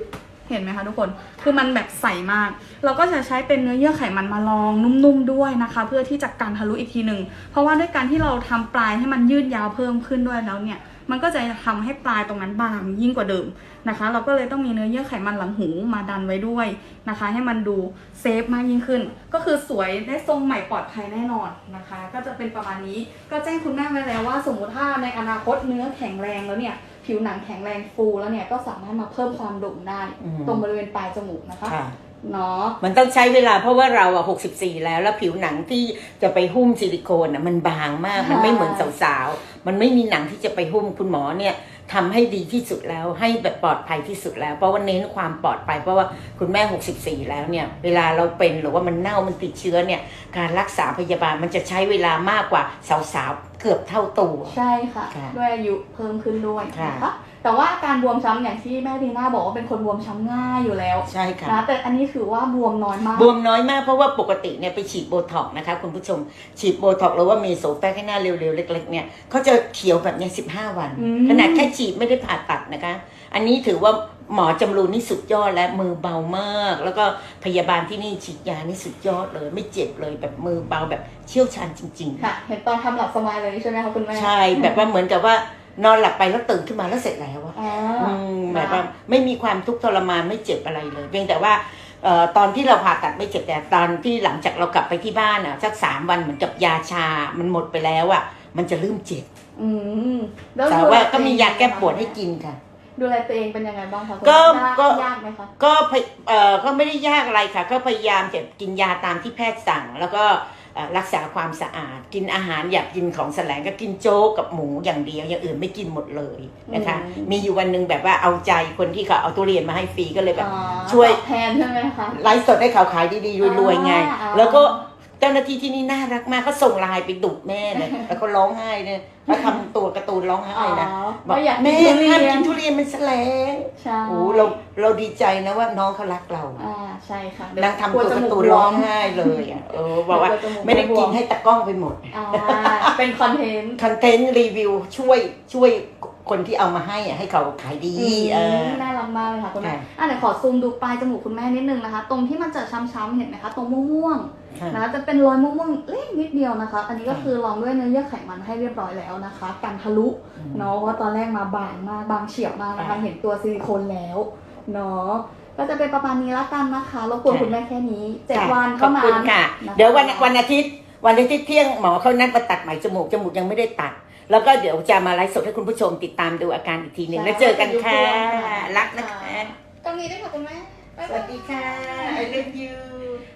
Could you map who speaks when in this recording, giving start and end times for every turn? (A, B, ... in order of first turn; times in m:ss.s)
0:00.5-0:32.8 A
0:30.2-0:30.6 B
0:31.6-0:32.0 B
0:32.8-0:54.6 B
0:38.2-0:38.9 A
0:54.5-1:03.3 A
0:55.1-0:55.4 B
0:56.7-0:57.1 B
1:01.1-1:01.6 B
1:03.1-1:22.3 B
1:11.0-1:11.7 A
1:22.2-1:24.8 A
1:24.1-1:39.3 B
1:27.6-1:28.8 A
1:39.6-1:42.2 A
1:40.7-1:42.6 B
1:43.0-1:45.5 A
1:44.2-1:45.0 B
1:45.6-2:01.2 B
1:56.7-1:57.3 A
2:00.4-2:02.2 A
2:02.1-2:16.6 B
2:03.4-2:04.8 A
2:07.7-2:08.1 A
2:09.3-2:09.6 A
2:10.5-2:12.5 A
2:13.8-2:14.6 A
2:16.6-2:21.2 A
2:17.6-2:22.9 B
2:22.1-2:23.8 A
2:23.8-2:28.8 B
2:28.0-2:50.3 A
2:29.6-2:29.9 B
2:34.6-2:34.8 B
2:40.4-2:40.7 B
2:42.8-2:43.0 B
2:47.3-2:47.5 B
2:48.3-2:59.5 B
2:57.1-3:02.5 A
3:01.1-3:03.2 B